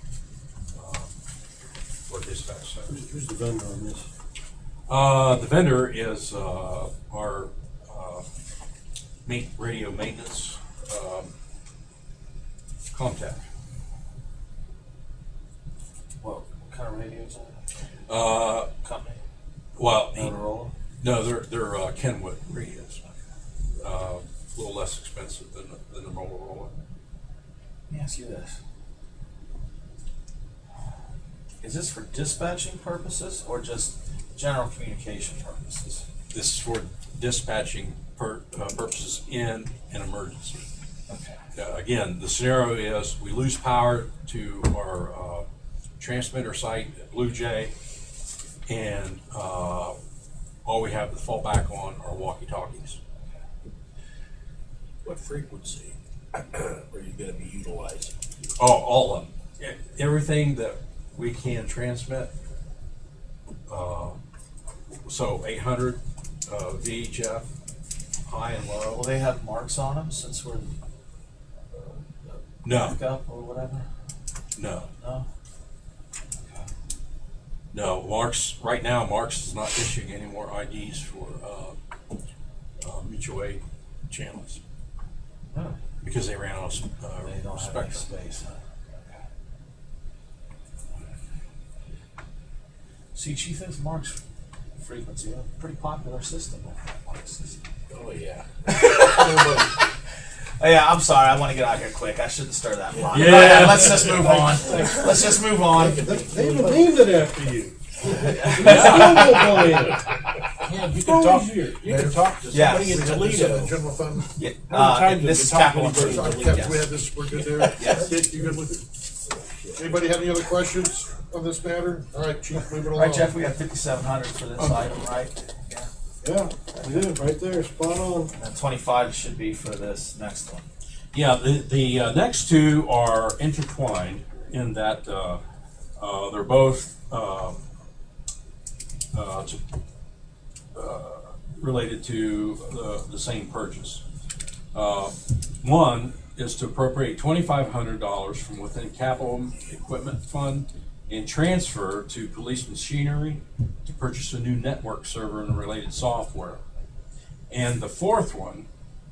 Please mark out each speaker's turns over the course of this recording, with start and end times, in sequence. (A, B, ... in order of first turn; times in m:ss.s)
0:00.7-0:01.2 A
0:02.1-0:03.0 A
0:02.9-0:04.1 B
0:04.9-0:08.2 A
0:09.2-0:11.3 A
0:12.9-0:13.5 A
0:16.2-0:17.6 C
0:18.1-0:18.7 A
0:18.8-0:19.2 C
0:19.8-0:20.3 A
0:20.1-0:20.7 C
0:21.0-0:23.0 A
0:23.8-0:26.8 A
0:27.9-0:28.6 C
0:31.6-0:36.1 C
0:36.3-0:40.6 A
0:41.1-0:41.4 C
0:41.6-0:45.4 A
0:46.0-0:47.7 A
0:48.7-0:50.0 A
0:50.6-0:53.0 A
0:55.0-0:58.1 D
0:58.6-1:02.3 A
1:03.7-1:04.2 A
1:05.1-1:07.5 A
1:08.2-1:09.0 A
1:08.9-1:10.7 C
1:11.7-1:13.8 C
1:12.6-1:13.0 A
1:14.6-1:14.9 A
1:15.0-1:15.3 C
1:17.7-1:21.8 A
1:22.8-1:24.6 A
1:25.5-1:25.8 C
1:26.0-1:28.1 A
1:27.2-1:28.6 C
1:33.2-1:34.2 C
1:34.8-1:37.6 C
1:37.9-1:38.4 D
1:38.7-1:39.9 C
1:39.2-1:39.7 D
1:40.6-1:46.1 C
1:42.9-1:47.5 D
1:43.1-1:44.1 A
1:46.0-1:50.0 B
1:48.0-1:49.9 D
1:48.1-1:49.6 C
1:50.6-1:53.7 D
1:50.9-1:51.9 B
1:51.9-1:52.3 E
1:52.5-1:53.1 C
1:52.8-1:54.3 E
1:54.4-1:57.0 C
1:54.7-1:56.5 B
1:55.6-1:58.8 E
1:57.6-1:58.2 C
1:59.8-2:03.3 E
2:02.8-2:05.9 C
2:06.2-2:08.3 B
2:06.8-2:07.1 C
2:08.4-2:10.7 C
2:11.1-2:15.4 A
2:16.0-2:17.6 A
2:19.1-2:19.6 A
2:20.7-2:24.0 A
2:24.7-2:36.6 A
2:37.5-2:38.7 A